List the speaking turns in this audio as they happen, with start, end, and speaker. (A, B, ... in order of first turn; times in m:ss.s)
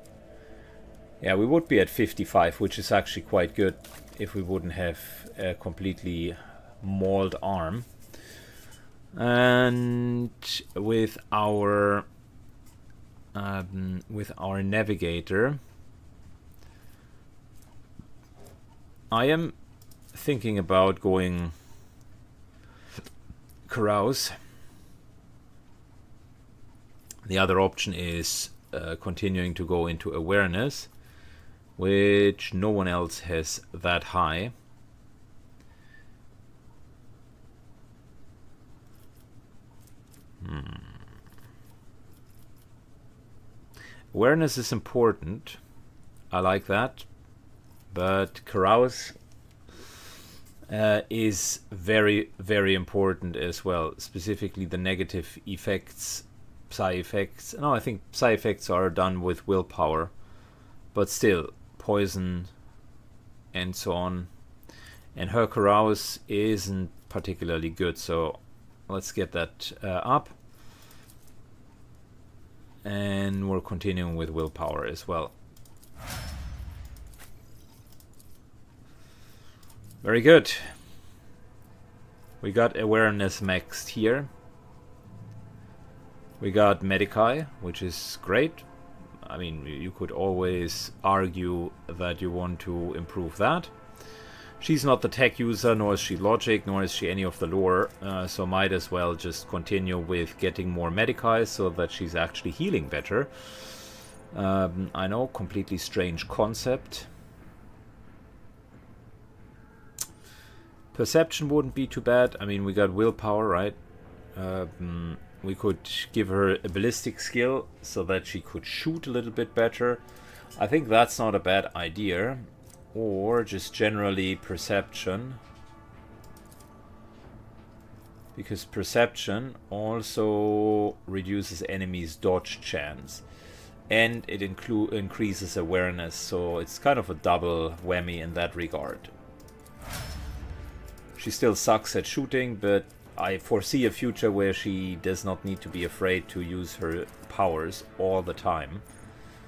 0:01.2-0:07.9 A
0:09.1-0:12.0 A
0:13.3-0:15.6 A
0:19.1-0:19.5 A
0:20.1-0:21.5 A
0:23.7-0:24.3 A
0:27.2-0:30.9 A
0:31.8-0:34.5 A
0:40.4-0:40.9 A
0:44.1-0:45.6 A
0:46.3-0:47.1 A
0:47.9-0:49.1 A
0:50.7-1:00.1 A
1:00.9-1:02.5 A
1:03.5-1:04.3 A
1:05.1-1:10.3 A
1:12.8-1:15.3 A
1:20.0-1:20.7 A
1:22.4-1:24.3 A
1:26.4-1:28.6 A
1:29.2-1:33.7 A
1:34.6-1:43.3 A
1:44.3-1:47.1 A
1:50.9-1:53.8 A
1:54.3-2:00.0 A
2:00.6-2:05.4 A
2:08.3-2:13.2 A
2:13.9-2:19.1 A
2:21.2-2:28.8 A